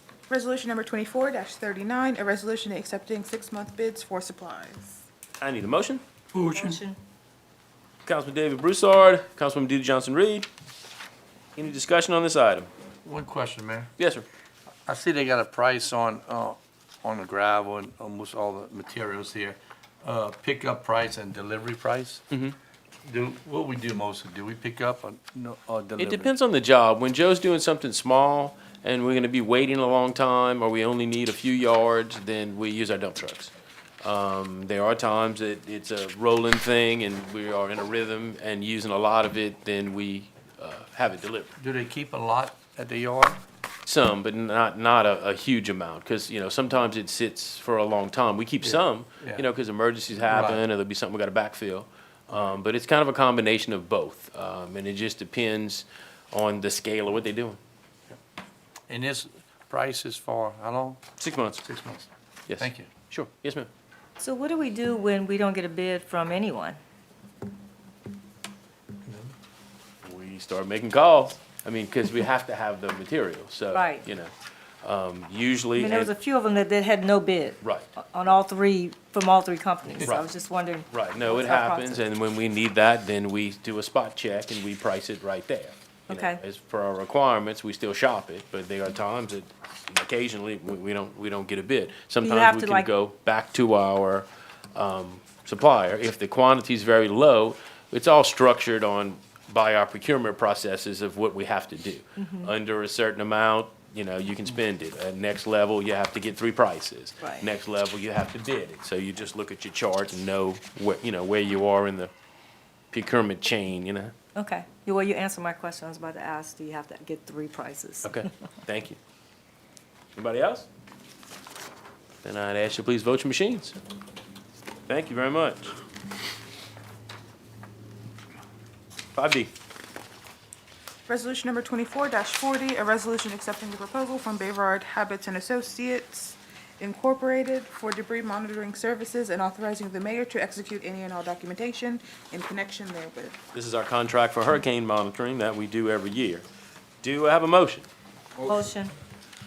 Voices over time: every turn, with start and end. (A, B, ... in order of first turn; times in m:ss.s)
0:00.3-0:05.0 A
0:05.4-0:06.0 B
0:06.3-0:06.8 C
0:06.5-0:07.0 D
0:08.0-0:10.5 B
0:11.6-0:12.7 B
0:13.0-0:13.9 C
0:14.0-0:14.2 B
0:14.8-0:22.2 C
0:22.3-0:22.6 B
0:23.0-0:26.3 C
0:26.0-0:41.5 B
0:41.6-0:43.4 C
0:43.8-0:57.6 B
0:48.6-0:49.5 C
0:50.2-0:50.6 C
0:58.9-1:01.0 C
1:01.2-1:01.6 B
1:01.6-1:02.9 C
1:02.5-1:03.7 B
1:04.2-1:06.8 D
1:09.0-1:09.3 C
1:10.0-1:16.1 B
1:13.7-1:14.0 D
1:15.8-1:22.0 D
1:17.6-1:17.9 B
1:20.0-1:20.3 B
1:20.9-1:52.1 B
1:26.1-1:26.4 D
1:32.2-1:32.9 D
1:42.2-1:42.5 D
1:47.2-1:47.5 D
1:52.9-1:54.1 B
1:54.3-1:58.2 D
1:58.0-1:59.0 B
2:00.2-2:00.7 B
2:02.2-2:03.8 B
2:04.9-2:05.8 B
2:09.1-2:09.5 B
2:11.1-2:23.4 A
2:23.5-2:26.4 B
2:27.0-2:27.9 B
2:28.4-2:28.9 D